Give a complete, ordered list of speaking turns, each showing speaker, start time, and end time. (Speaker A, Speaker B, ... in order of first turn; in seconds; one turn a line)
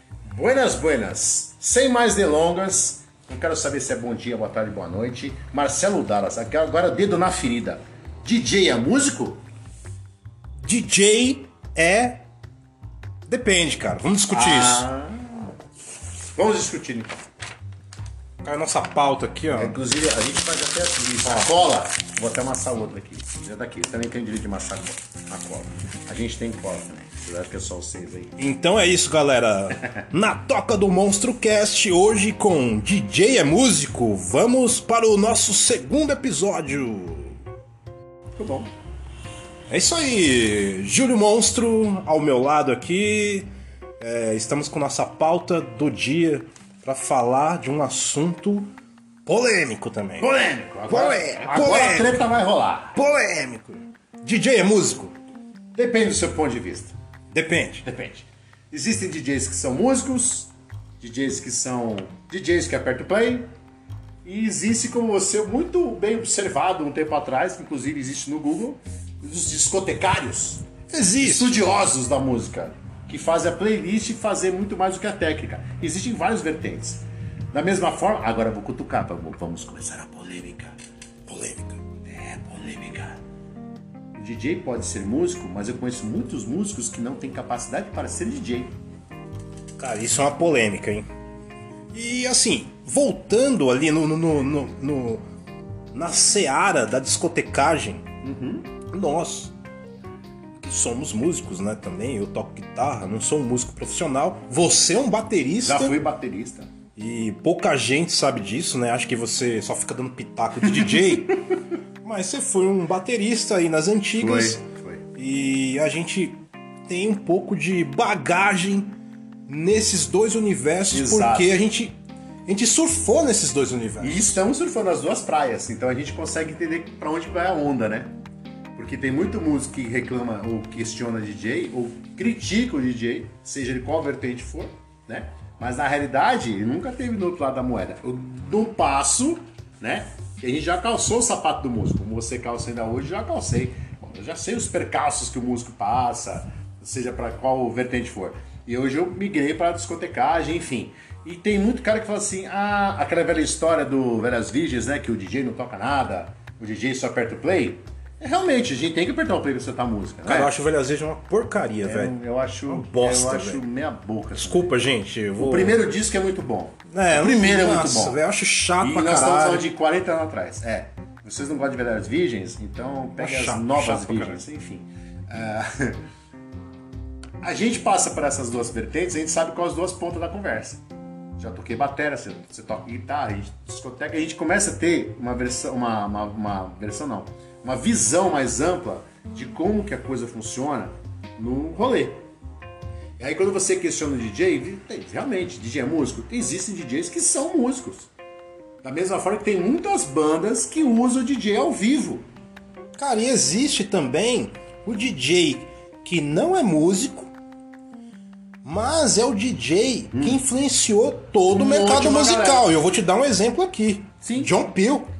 Speaker A: 0.2-9.4
Speaker B: 10.6-12.2
Speaker B: 13.3-14.9
Speaker A: 14.3-15.5
Speaker A: 16.4-17.2
Speaker B: 18.4-19.8
Speaker A: 19.5-28.4
Speaker B: 28.4-37.4
Speaker A: 38.4-38.7
Speaker B: 39.7-43.5
Speaker B: 44.0-48.7
Speaker B: 49.2-50.3
Speaker A: 50.2-53.0
Speaker B: 50.9-52.2
Speaker B: 53.0-55.1
Speaker A: 55.8-56.9
Speaker B: 57.3-57.9
Speaker A: 57.8-63.5
Speaker A: 64.2-70.7
Speaker B: 70.9-71.5
Speaker A: 71.2-80.7
Speaker B: 81.3-81.8
Speaker A: 82.0-83.2
Speaker A: 84.2-88.7
Speaker B: 89.8-91.1
Speaker B: 91.9-95.2
Speaker B: 95.9-98.0
Speaker A: 98.2-98.7
Speaker B: 98.9-99.5
Speaker B: 100.6-106.0
Speaker A: 105.6-106.7
Speaker B: 107.0-114.6
Speaker A: 110.7-111.5
Speaker A: 114.2-115.0
Speaker B: 115.1-118.9
Speaker B: 119.5-124.3
Speaker A: 120.9-121.5
Speaker A: 124.0-128.1
Speaker A: 128.8-160.5
Speaker B: 160.2-162.2
Speaker A: 161.8-164.7
Speaker B: 162.7-163.6
Speaker B: 164.3-165.8
Speaker A: 165.4-168.2
Speaker B: 166.9-169.7
Speaker A: 168.8-176.0
Speaker B: 173.2-174.4
Speaker A: 177.4-180.8
Speaker A: 181.4-192.2
Speaker A: 193.2-198.1
Speaker A: 198.8-202.2
Speaker B: 202.9-207.3
Speaker B: 208.6-215.1
Speaker A: 210.1-210.4
Speaker A: 211.5-212.7
Speaker A: 214.2-214.5